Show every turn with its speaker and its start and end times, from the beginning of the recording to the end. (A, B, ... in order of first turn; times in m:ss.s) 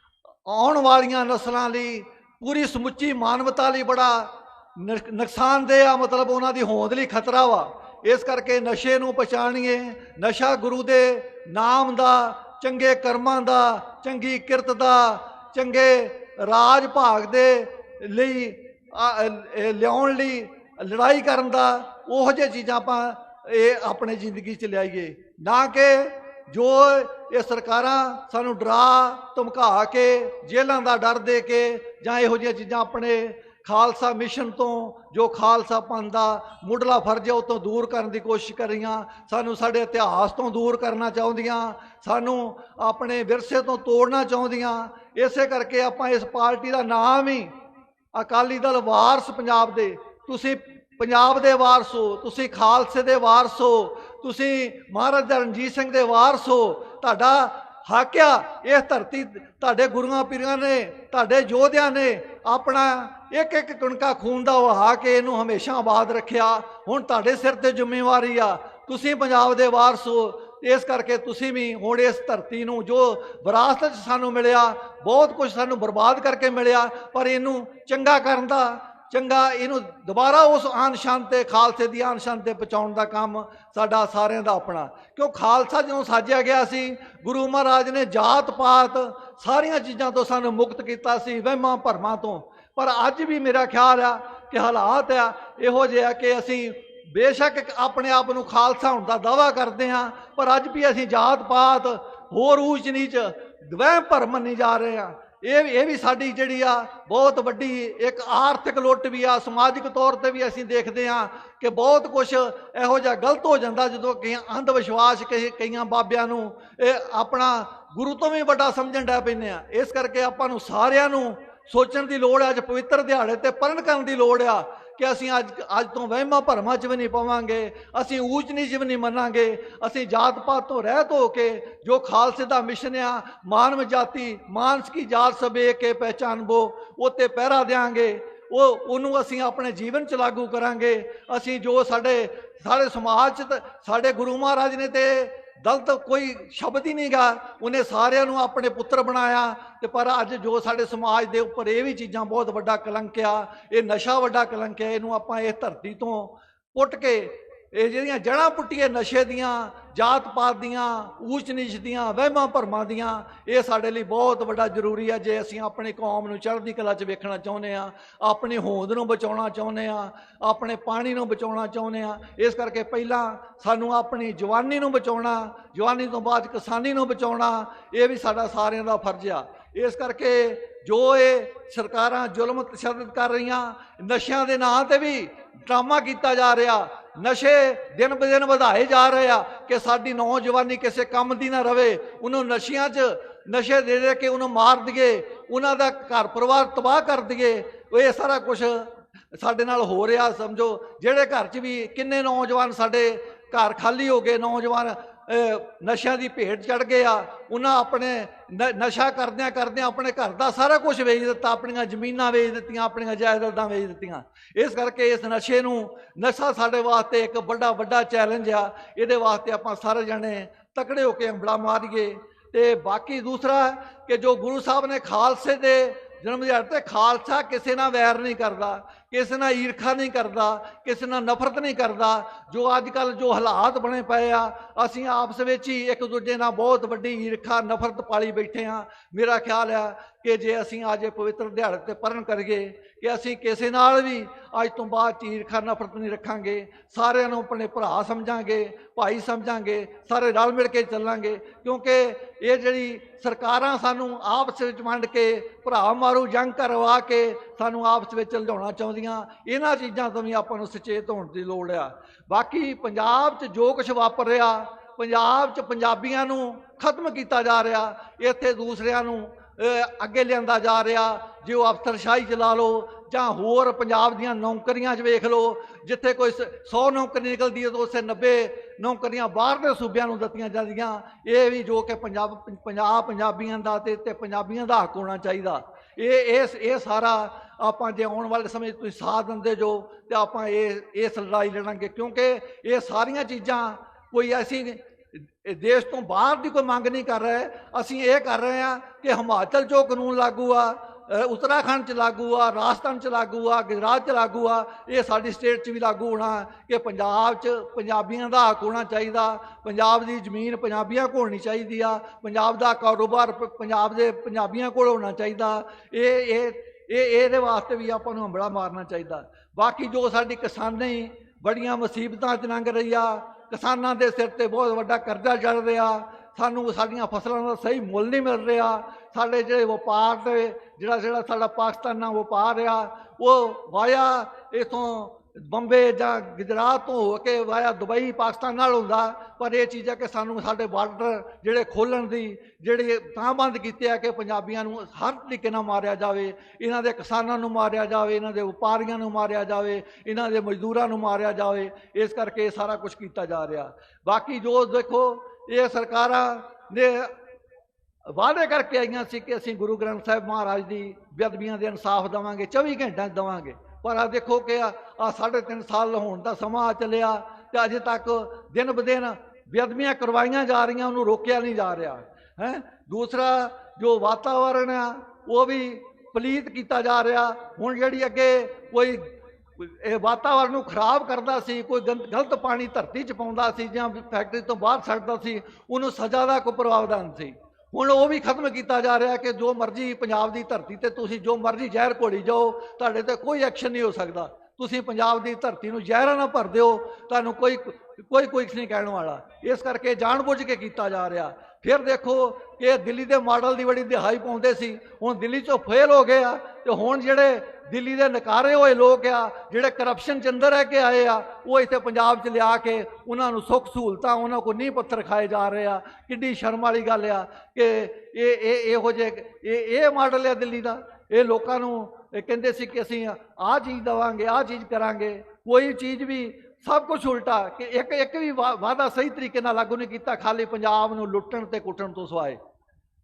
0:00.5-0:47.5 A
0:48.1-5:57.2 A
5:58.1-7:12.4 A